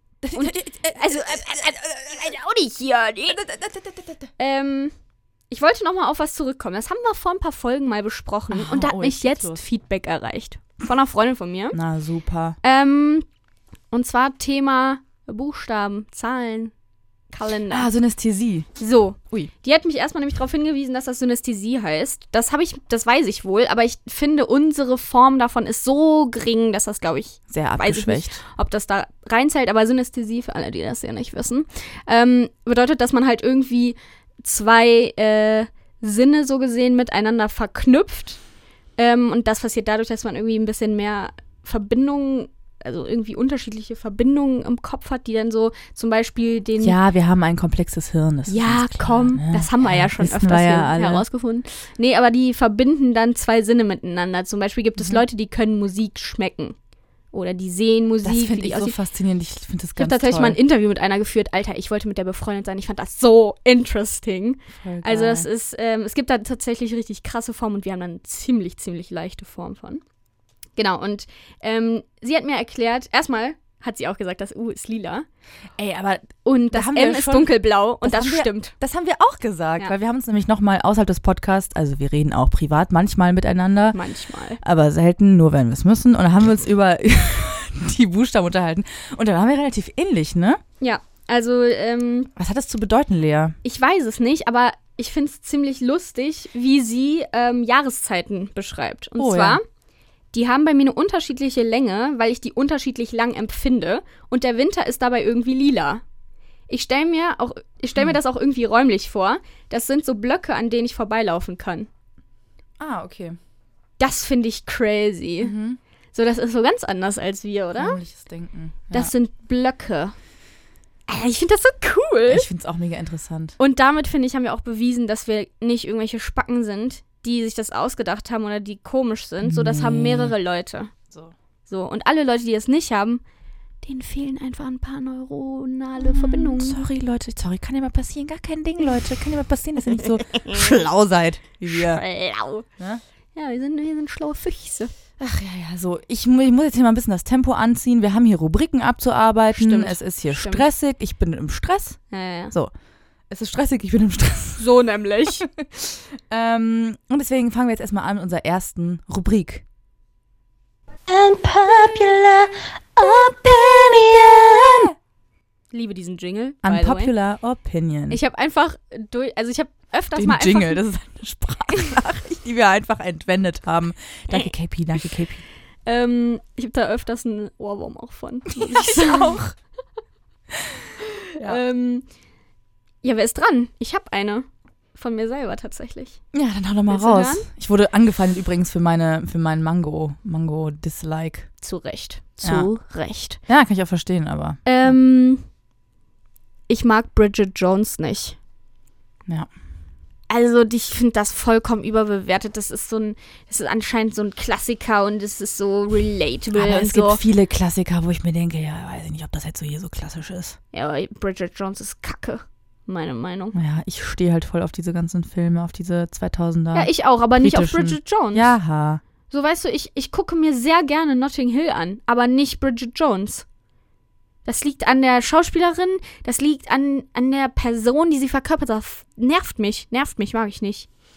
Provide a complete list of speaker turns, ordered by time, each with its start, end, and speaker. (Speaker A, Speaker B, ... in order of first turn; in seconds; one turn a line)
Speaker A: 0.2-2.2
Speaker B: 0.3-3.4
Speaker A: 3.3-4.3
Speaker B: 4.4-4.9
Speaker B: 5.5-11.8
Speaker A: 8.5-9.6
Speaker A: 11.7-12.6
Speaker B: 12.6-13.2
Speaker B: 13.9-16.7
Speaker B: 17.3-17.9
Speaker A: 17.7-18.7
Speaker B: 18.8-38.4
Speaker A: 27.5-28.4
Speaker B: 39.0-46.9
Speaker A: 46.8-51.2
Speaker B: 48.5-56.8
Speaker A: 55.0-55.2
Speaker B: 57.3-58.9
Speaker A: 58.2-60.6
Speaker B: 60.0-70.0
Speaker A: 64.8-65.5
Speaker B: 70.8-75.2
Speaker A: 75.8-84.0
Speaker B: 76.4-78.7
Speaker B: 83.9-84.6
Speaker A: 84.6-90.6
Speaker B: 90.8-92.3
Speaker A: 92.3-93.5
Speaker B: 93.6-99.6
Speaker A: 99.2-99.6
Speaker B: 100.3-106.0
Speaker B: 106.7-111.9
Speaker A: 112.8-113.4
Speaker B: 114.0-115.5
Speaker A: 115.4-115.8
Speaker B: 116.1-118.0
Speaker A: 117.8-119.1
Speaker B: 118.9-120.1
Speaker B: 121.1-122.5
Speaker A: 122.3-123.6
Speaker B: 123.6-130.9
Speaker A: 129.4-130.3
Speaker A: 131.1-131.3
Speaker B: 131.7-133.2
Speaker B: 133.8-136.8
Speaker A: 136.0-142.0
Speaker B: 140.3-140.6
Speaker B: 141.7-142.7
Speaker B: 143.3-144.9
Speaker A: 145.2-152.0
Speaker B: 149.5-150.6
Speaker B: 152.1-152.5
Speaker A: 153.3-154.7
Speaker B: 154.6-155.5
Speaker A: 155.4-159.6
Speaker C: 161.1-164.9
Speaker B: 165.7-167.1
Speaker A: 166.6-168.2
Speaker B: 168.1-170.8
Speaker A: 170.1-175.4
Speaker B: 175.8-179.4
Speaker A: 178.5-179.5
Speaker B: 181.3-182.1
Speaker B: 183.0-186.2
Speaker A: 186.3-191.5
Speaker B: 186.9-187.5
Speaker B: 191.6-193.4
Speaker A: 192.4-192.7
Speaker A: 193.5-194.9
Speaker B: 194.6-195.4
Speaker B: 196.7-198.4
Speaker B: 200.3-207.2
Speaker A: 206.5-210.6
Speaker B: 210.7-213.6
Speaker A: 213.5-219.0
Speaker B: 216.7-218.5
Speaker B: 219.3-223.4
Speaker B: 224.4-230.9